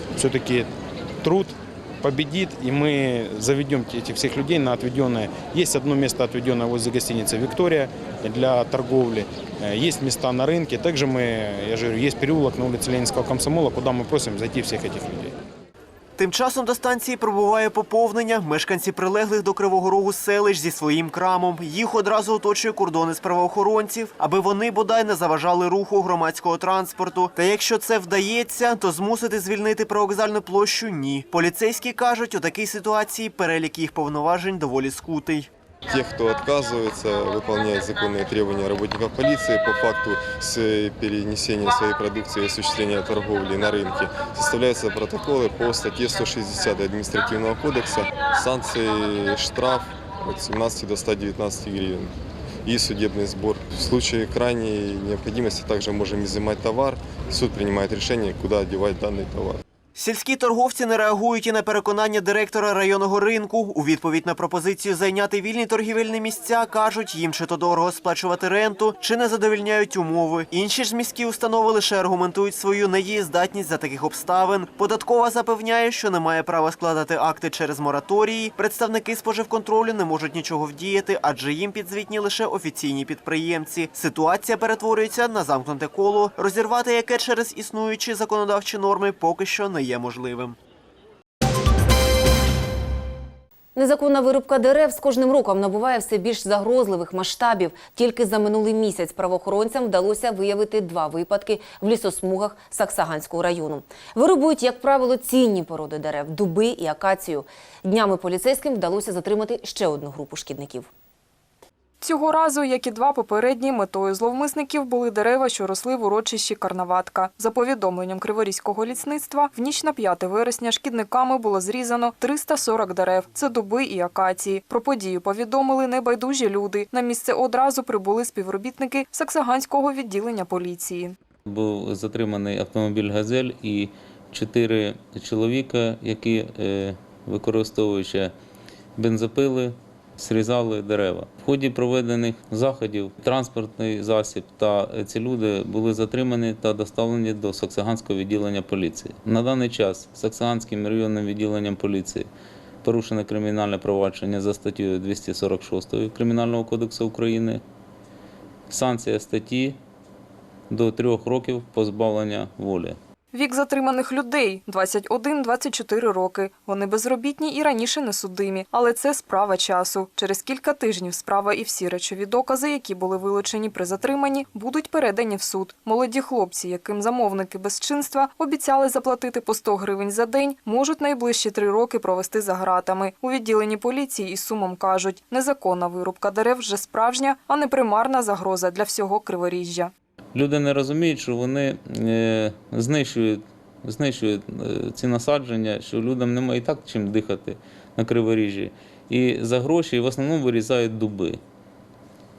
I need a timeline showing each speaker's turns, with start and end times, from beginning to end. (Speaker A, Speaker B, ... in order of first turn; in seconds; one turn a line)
Speaker A: 0.1-0.7
Speaker A: 1.2-15.3
Speaker B: 16.2-35.5
Speaker C: 35.9-52.1
Speaker C: 52.7-59.6
Speaker B: 60.0-90.6
Speaker D: 93.8-110.9
Speaker E: 112.0-131.2
Speaker F: 131.5-138.3
Speaker F: 139.0-152.3
Speaker F: 152.8-157.6
Speaker F: 158.7-159.8
Speaker F: 160.7-163.0
Speaker E: 163.3-189.9
Speaker F: 190.3-201.4